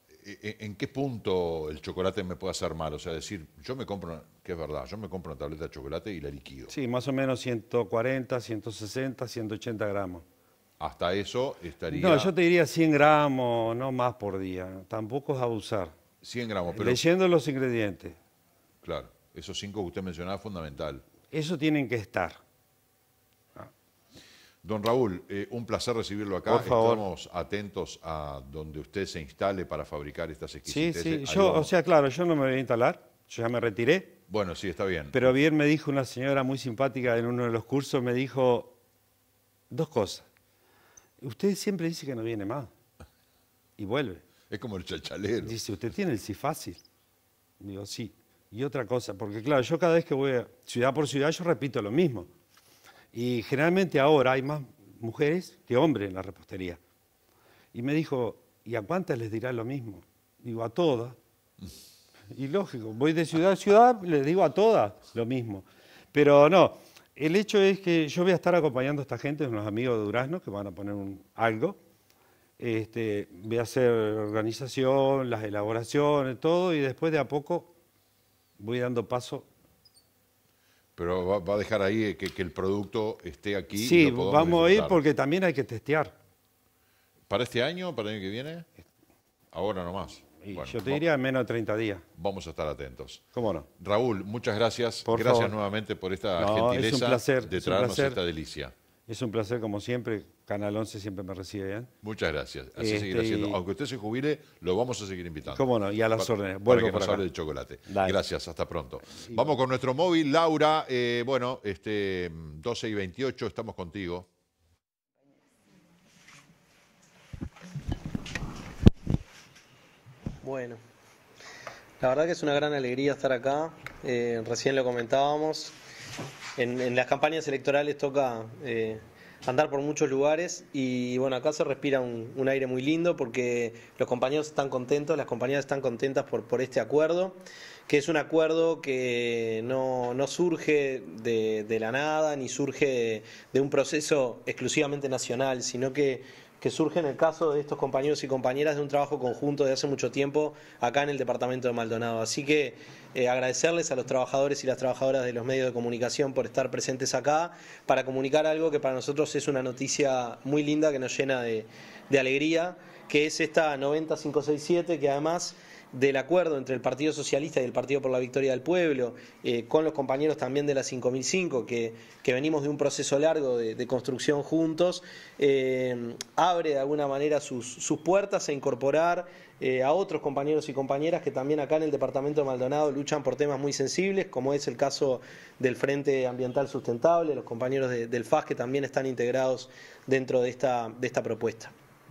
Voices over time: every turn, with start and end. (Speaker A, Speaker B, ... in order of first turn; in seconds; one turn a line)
Speaker A: 0.1-6.7
Speaker B: 6.7-10.2
Speaker A: 10.8-12.3
Speaker B: 11.9-15.9
Speaker A: 16.2-17.0
Speaker B: 16.7-18.2
Speaker A: 18.8-21.0
Speaker B: 21.3-22.4
Speaker A: 24.6-31.7
Speaker B: 26.4-27.0
Speaker B: 30.6-34.2
Speaker A: 34.3-35.3
Speaker B: 35.1-38.8
Speaker B: 39.7-40.3
Speaker B: 41.2-42.7
Speaker B: 43.8-44.2
Speaker A: 44.5-45.6
Speaker B: 45.4-46.8
Speaker B: 47.6-52.3
Speaker B: 53.1-56.8
Speaker B: 57.7-61.2
Speaker B: 62.3-71.8
Speaker B: 72.6-77.7
Speaker B: 78.6-79.5
Speaker A: 81.0-85.0
Speaker B: 83.8-86.1
Speaker A: 87.3-88.7
Speaker A: 89.5-91.0
Speaker B: 90.4-92.0
Speaker A: 92.1-93.2
Speaker B: 93.3-93.7
Speaker A: 93.8-98.7
Speaker B: 95.0-95.5
Speaker B: 96.4-98.2
Speaker B: 99.1-101.9
Speaker A: 102.0-114.3
Speaker B: 102.8-103.6
Speaker B: 105.5-107.2
Speaker B: 107.8-108.2
Speaker B: 109.1-109.5
Speaker C: 120.4-120.8
Speaker C: 122.0-125.7
Speaker C: 126.6-191.7